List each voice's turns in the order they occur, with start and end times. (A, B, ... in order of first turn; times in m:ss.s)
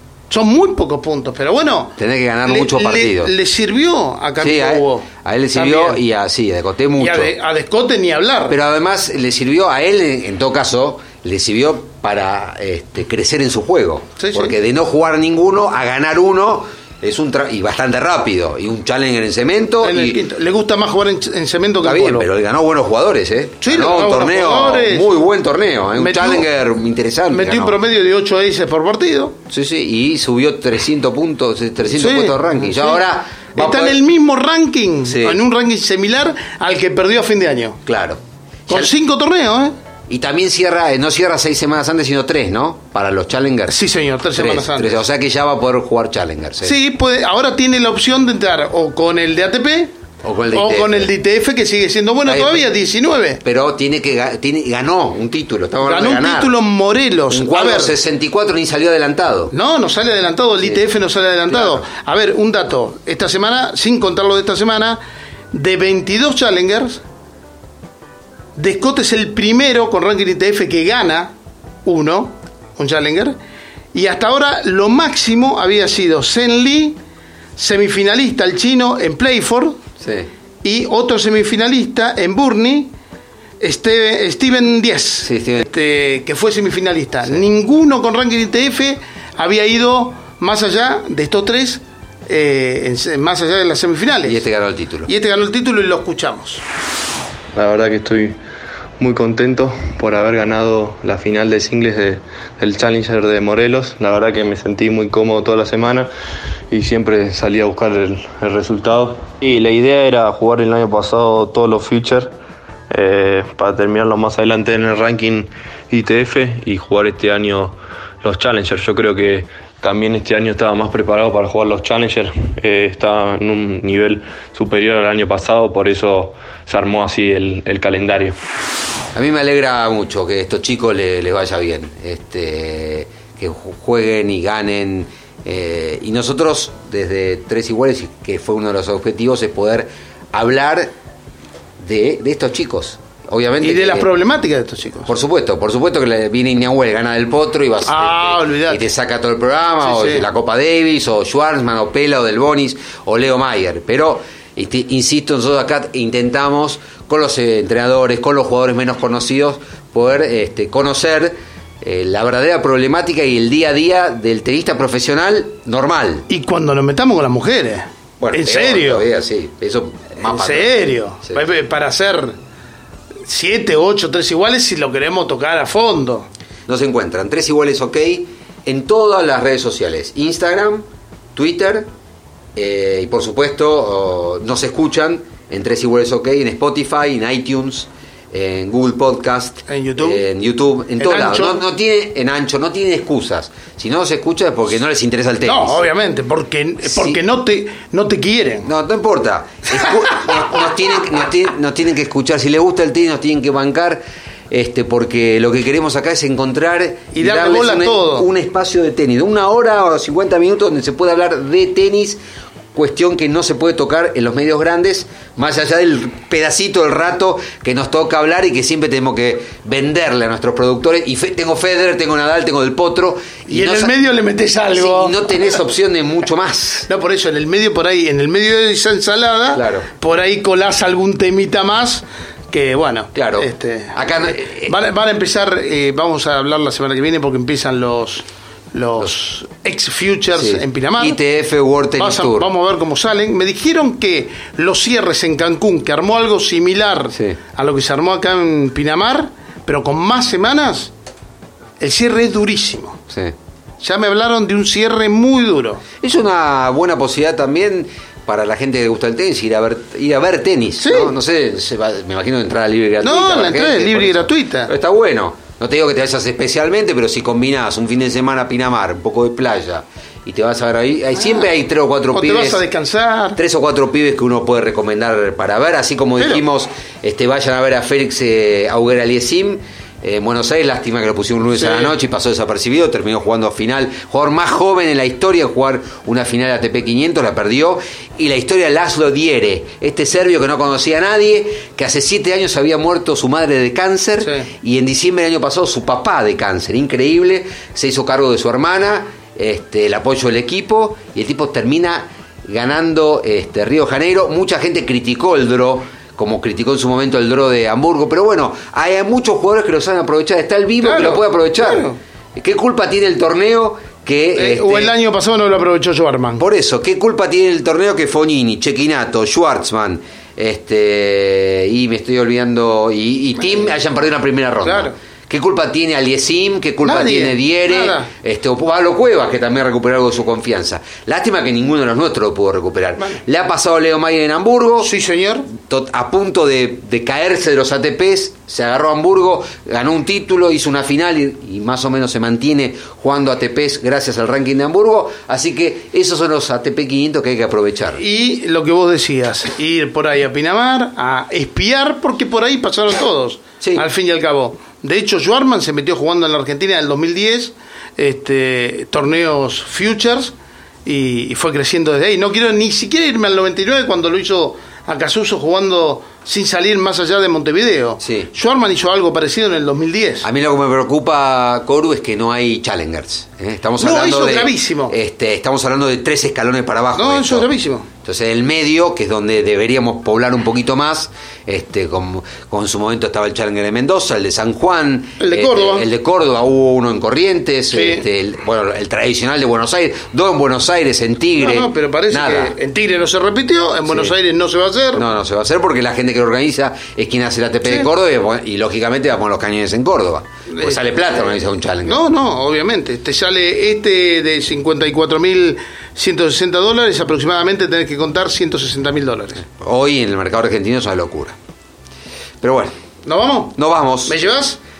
0:00.3-0:06.0 A
0:02.0-0:03.3 B
0:04.4-0:07.3 B
0:07.0-0:08.6 A
0:08.5-0:20.2 B
0:14.2-0:14.5 A
0:19.8-0:22.3 A
0:21.8-0:27.8 B
0:23.6-0:25.1 A
0:26.0-0:26.5 A
0:27.3-0:29.4 A
0:29.5-0:34.0 B
0:31.9-0:33.0 A
0:33.5-0:37.8 A
0:35.0-0:35.4 B
0:37.8-0:38.9 B
0:38.7-0:39.8 A
0:40.1-0:43.7 B
0:43.7-0:45.0 A
0:44.3-0:46.8 B
0:46.6-0:49.9 A
0:50.2-0:51.1 B
0:50.5-0:53.4 A
0:52.2-0:52.7 B
0:53.4-0:56.5 B
0:55.8-0:57.9 A
0:57.3-0:59.5 B
0:59.5-1:05.0 A
1:01.5-1:01.8 B
1:05.5-1:07.0 A
1:08.6-1:11.3 A
1:11.8-1:13.4 A
1:13.9-1:17.0 A
1:17.6-1:19.8 A
1:20.0-1:20.3 B
1:20.6-1:22.9 A
1:23.6-1:34.4 A
1:25.2-1:25.6 B
1:34.2-1:35.1 B
1:35.0-1:36.6 A
1:37.5-1:38.4 C
1:39.0-1:46.1 C
1:46.7-1:52.3 C
1:52.9-2:08.4 C
2:09.1-2:20.9 B
2:21.8-2:24.1 B
2:23.6-2:25.1 A
2:25.0-2:46.2 B
2:27.8-2:28.8 A
2:29.8-2:30.3 A
2:46.3-2:49.0 A
2:48.2-2:51.4 B
2:50.2-2:52.4 A
2:53.2-2:56.3 A
2:56.7-3:01.9 B
3:02.5-3:15.8 B
3:09.7-3:10.2 A
3:11.0-3:11.6 A
3:15.4-3:18.7 A
3:16.9-3:17.2 B
3:18.6-3:32.2 B
3:19.8-3:20.5 A
3:27.1-3:28.3 A
3:32.7-3:43.9 B
3:43.5-3:45.4 A
3:44.7-3:46.9 B
3:46.9-4:01.2 A
3:49.5-3:49.9 B
3:53.1-3:54.7 B
4:00.3-4:02.5 B
4:02.0-4:10.9 A
4:07.1-4:07.4 B
4:11.8-4:13.0 A
4:13.1-4:13.3 B
4:13.8-4:15.8 A
4:16.0-4:32.6 B
4:20.8-4:21.1 A
4:23.0-4:24.7 A
4:32.1-4:33.4 A
4:33.4-5:14.9 B
4:41.5-4:41.9 A
4:54.2-4:54.5 A
5:10.8-5:12.0 A
5:14.3-5:16.4 A
5:16.4-5:34.9 B
5:24.6-5:25.0 A
5:26.8-5:28.1 A
5:34.8-5:35.5 A
5:35.5-5:48.0 B
5:48.0-6:00.3 A
6:00.8-6:10.2 A
6:08.0-6:08.3 B
6:10.2-6:17.5 B
6:13.8-6:14.9 A
6:17.0-6:17.9 A
6:18.0-6:32.5 B
6:25.2-6:25.9 A
6:27.7-6:28.0 A
6:31.4-6:35.0 A
6:33.8-6:34.1 B
6:34.9-6:42.0 B
6:40.5-6:49.4 A
6:49.4-6:51.4 B
6:52.4-6:52.8 B
6:53.0-6:54.6 A
6:53.5-6:54.2 B